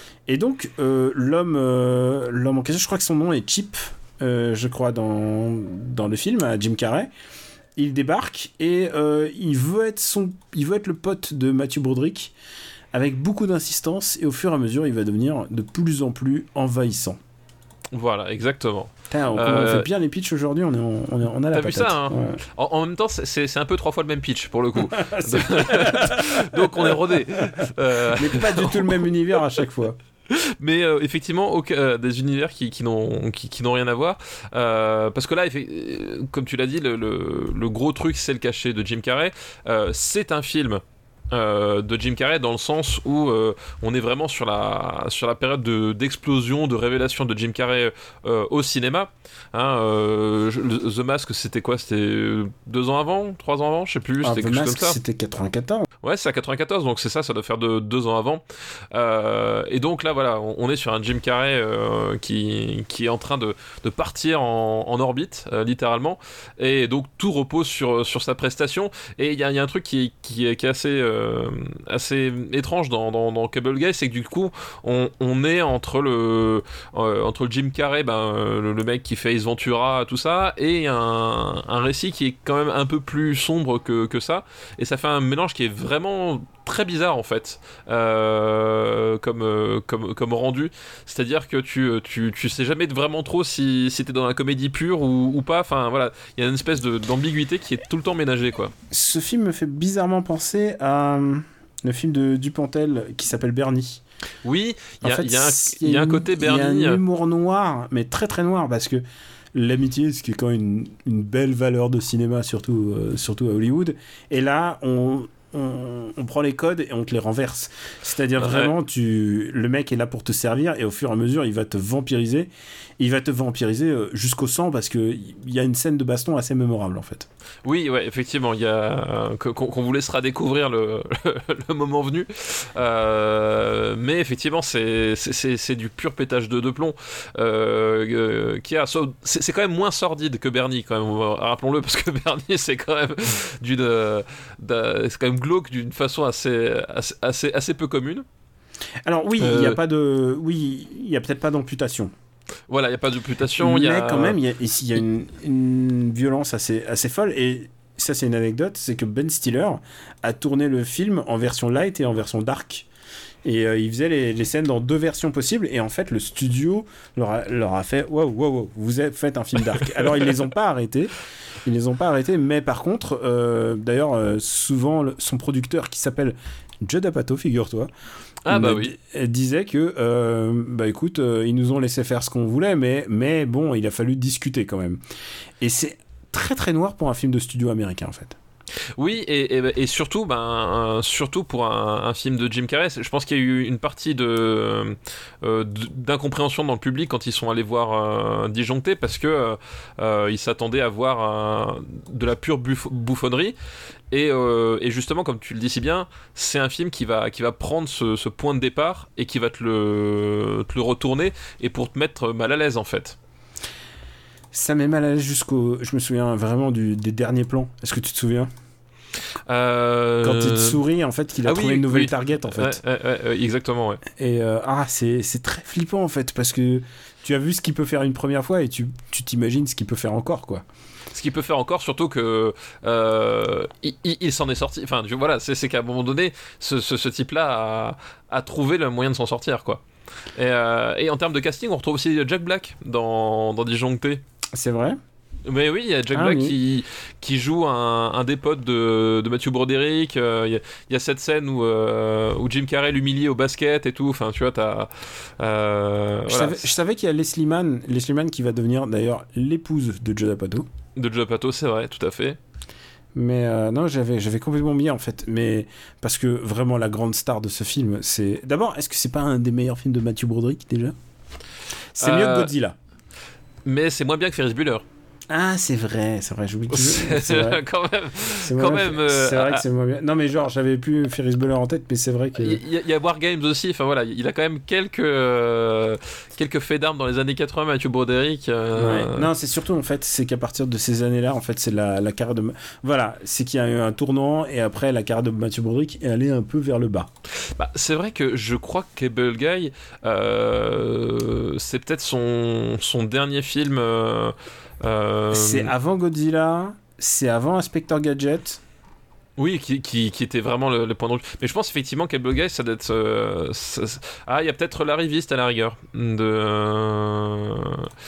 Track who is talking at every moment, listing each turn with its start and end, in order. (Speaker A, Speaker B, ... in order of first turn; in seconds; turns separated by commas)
Speaker A: 0.3-7.1, Speaker A: 7.8-12.3, Speaker A: 12.9-17.2, Speaker B: 17.9-19.9, Speaker A: 19.1-22.4, Speaker B: 21.5-29.1, Speaker A: 24.8-27.6, Speaker A: 28.1-30.0, Speaker B: 30.3-55.0, Speaker A: 54.2-55.9, Speaker B: 56.0-98.7, Speaker A: 98.9-104.0, Speaker B: 104.4-107.0, Speaker A: 105.0-109.0, Speaker A: 109.5-127.3, Speaker B: 118.4-118.7, Speaker B: 127.6-148.2, Speaker A: 149.0-152.1, Speaker B: 149.4-149.8, Speaker B: 152.7-154.4, Speaker A: 153.6-162.9, Speaker A: 163.4-171.1, Speaker A: 171.6-177.9, Speaker B: 178.4-178.9, Speaker A: 178.5-185.0, Speaker A: 185.6-188.4, Speaker B: 189.0-203.6, Speaker B: 204.1-213.2, Speaker A: 214.5-218.5, Speaker B: 219.4-220.8, Speaker A: 220.2-222.8, Speaker B: 221.4-224.0, Speaker A: 224.1-230.6, Speaker B: 231.1-239.8, Speaker B: 240.3-244.2, Speaker A: 244.5-245.0, Speaker B: 245.4-256.7, Speaker A: 246.1-246.6, Speaker A: 256.3-260.7, Speaker B: 260.9-262.4, Speaker A: 263.1-270.9, Speaker A: 271.9-272.8, Speaker B: 272.0-272.5, Speaker B: 273.6-274.8, Speaker A: 275.3-277.6, Speaker B: 276.7-279.6, Speaker A: 278.4-282.6, Speaker B: 282.4-289.3, Speaker A: 288.8-297.1, Speaker B: 297.4-305.7, Speaker A: 305.3-308.6, Speaker B: 309.4-317.9